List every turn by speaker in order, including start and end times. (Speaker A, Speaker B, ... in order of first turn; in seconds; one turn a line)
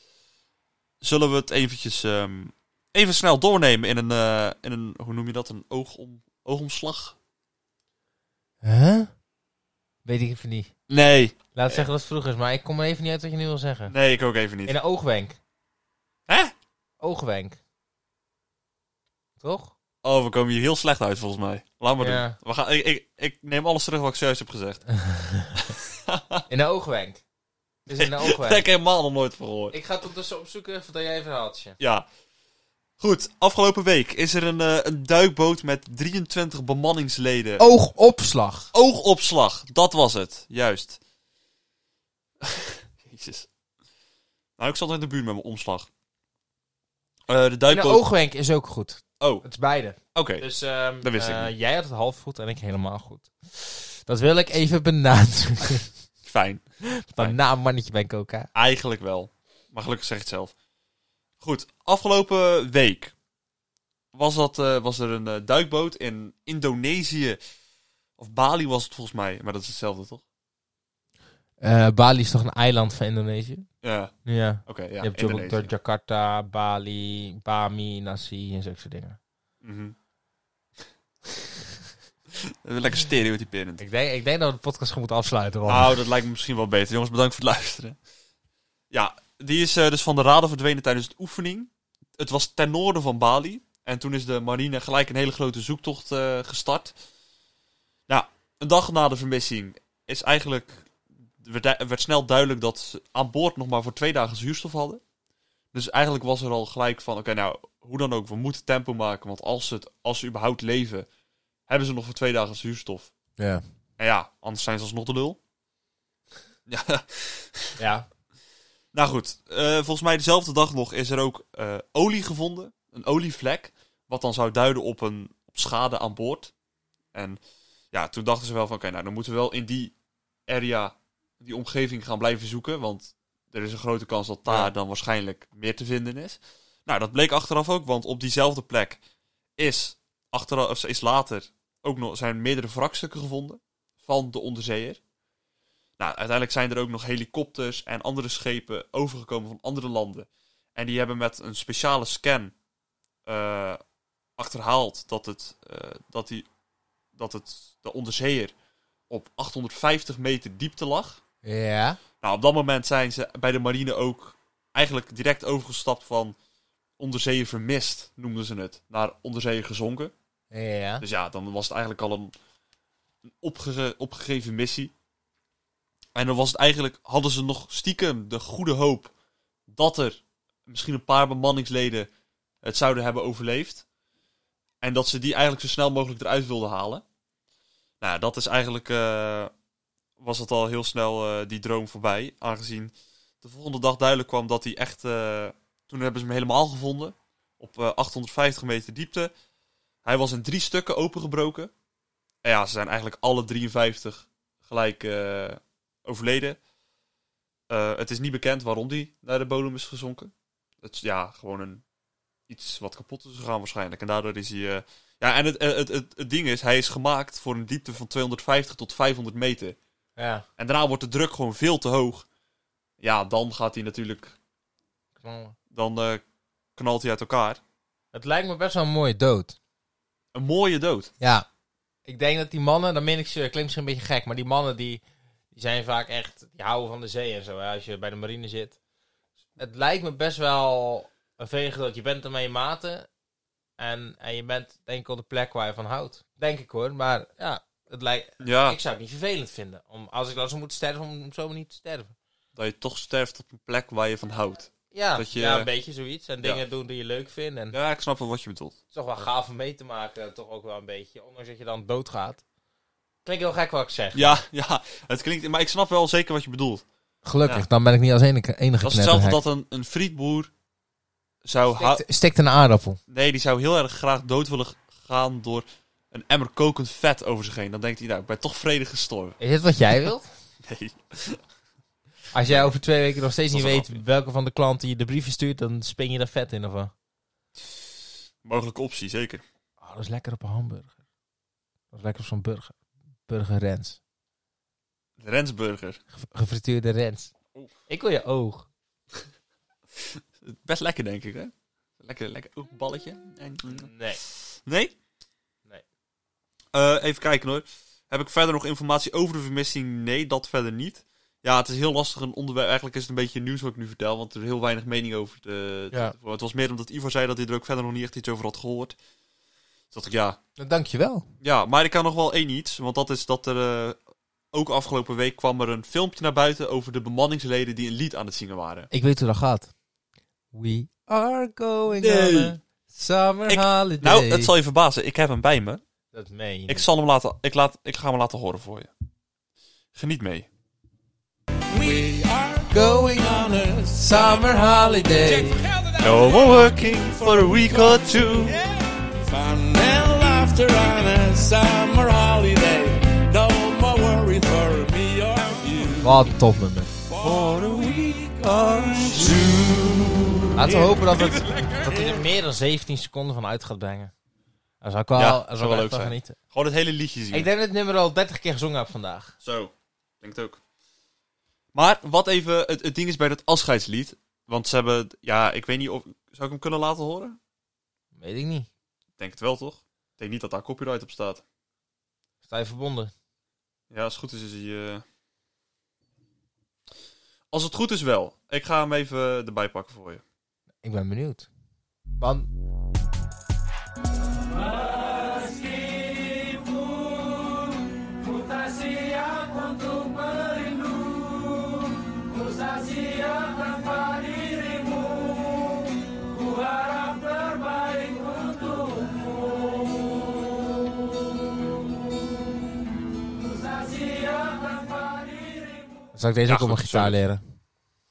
Speaker A: 1.0-7.2
Speaker B: 8.6-9.1
Speaker B: 10.0-10.7
Speaker A: 10.9-11.8
Speaker B: 11.5-13.9
Speaker A: 13.9-14.7
Speaker B: 14.7-15.4
Speaker A: 16.3-16.5
Speaker B: 17.0-17.6
Speaker B: 19.4-19.7
Speaker A: 20.0-24.8
Speaker B: 22.0-22.4
Speaker B: 24.9-25.7
Speaker A: 25.6-26.4
Speaker B: 26.5-27.2
Speaker B: 27.9-28.6
Speaker A: 27.9-29.8
Speaker B: 29.7-31.8
Speaker A: 31.8-32.1
Speaker A: 33.0-37.6
Speaker B: 37.6-38.7
Speaker A: 38.7-41.0
Speaker A: 42.4-43.5
Speaker A: 44.6-45.9
Speaker A: 47.3-48.0
Speaker B: 47.7-55.9
Speaker A: 49.2-49.4
Speaker A: 50.1-50.5
Speaker A: 51.0-51.5
Speaker A: 56.2-56.6
Speaker B: 56.9-58.5
Speaker A: 58.5-60.5
Speaker A: 61.4-63.1
Speaker A: 64.1-67.4
Speaker A: 68.2-70.2
Speaker B: 71.6-73.7
Speaker A: 73.8-74.1
Speaker B: 74.2-79.2
Speaker A: 74.6-75.7
Speaker A: 79.6-79.9
Speaker A: 82.3-83.8
Speaker B: 83.8-86.0
Speaker A: 85.7-88.0
Speaker A: 88.9-96.9
Speaker A: 98.1-100.9
Speaker A: 101.4-105.0
Speaker A: 105.7-111.1
Speaker A: 111.7-113.1
Speaker B: 113.4-113.6
Speaker A: 114.0-115.4
Speaker A: 116.7-117.8
Speaker B: 117.8-118.1
Speaker A: 118.9-126.5
Speaker A: 127.1-127.4
Speaker A: 127.9-129.9
Speaker A: 130.5-139.0
Speaker A: 139.6-145.0
Speaker A: 146.0-152.5
Speaker A: 153.2-153.8
Speaker A: 154.4-156.5
Speaker A: 157.1-158.5
Speaker A: 159.1-161.2
Speaker B: 161.4-162.0
Speaker A: 162.2-166.3
Speaker A: 167.0-170.1
Speaker B: 170.5-171.0
Speaker A: 171.0-172.3
Speaker A: 173.2-174.9
Speaker A: 176.1-179.1
Speaker A: 179.7-182.1
Speaker A: 182.6-183.8
Speaker A: 184.8-187.0
Speaker A: 188.0-189.5
Speaker A: 190.2-199.3
Speaker A: 200.0-201.7
Speaker A: 202.4-206.6
Speaker A: 207.7-211.8
Speaker A: 212.5-219.8
Speaker B: 220.2-220.4
Speaker A: 220.6-222.2
Speaker A: 223.0-224.3
Speaker B: 225.2-225.6
Speaker A: 225.7-226.2
Speaker A: 226.8-227.6
Speaker B: 228.1-229.6
Speaker A: 230.3-231.1
Speaker B: 231.2-231.4
Speaker B: 232.1-238.8
Speaker B: 239.6-243.1
Speaker B: 243.8-252.1
Speaker A: 248.4-248.8
Speaker A: 252.5-255.7
Speaker B: 254.9-257.8
Speaker A: 257.7-258.8
Speaker B: 258.9-262.4
Speaker B: 263.2-264.4
Speaker A: 264.1-266.8
Speaker B: 267.2-269.4
Speaker A: 268.8-270.5
Speaker A: 271.4-272.0
Speaker B: 271.8-273.0
Speaker A: 273.1-279.4
Speaker B: 279.4-280.3
Speaker A: 280.6-281.4
Speaker B: 282.3-286.9
Speaker A: 282.5-282.7
Speaker A: 283.5-284.0
Speaker A: 288.4-289.4
Speaker B: 289.8-290.9
Speaker B: 291.9-292.8
Speaker B: 293.3-294.0
Speaker A: 295.2-296.0
Speaker B: 296.1-297.3
Speaker B: 297.9-298.7
Speaker A: 300.0-303.9
Speaker B: 303.6-304.2
Speaker A: 304.6-304.9
Speaker A: 306.7-318.9
Speaker A: 319.9-320.4
Speaker B: 320.6-321.2
Speaker A: 321.4-324.0
Speaker A: 324.5-328.9
Speaker B: 328.9-329.7
Speaker B: 330.5-334.5
Speaker A: 332.0-332.6
Speaker A: 333.5-335.8
Speaker B: 336.1-336.9
Speaker A: 336.7-338.9
Speaker A: 339.9-340.5
Speaker C: 341.7-356.3
Speaker B: 342.7-345.6
Speaker A: 346.0-348.6
Speaker B: 356.0-356.9
Speaker C: 357.0-359.8
Speaker A: 357.2-360.4
Speaker B: 360.5-364.1
Speaker C: 360.6-362.3
Speaker B: 364.8-366.4
Speaker A: 365.1-367.5
Speaker B: 367.3-369.3
Speaker A: 369.4-370.6
Speaker A: 371.7-377.4
Speaker B: 378.1-378.7
Speaker A: 379.2-381.4
Speaker B: 382.4-383.1
Speaker A: 383.9-385.0
Speaker A: 387.5-390.2
Speaker B: 390.8-391.5
Speaker B: 392.2-392.5
Speaker B: 416.1-417.4
Speaker A: 416.5-417.1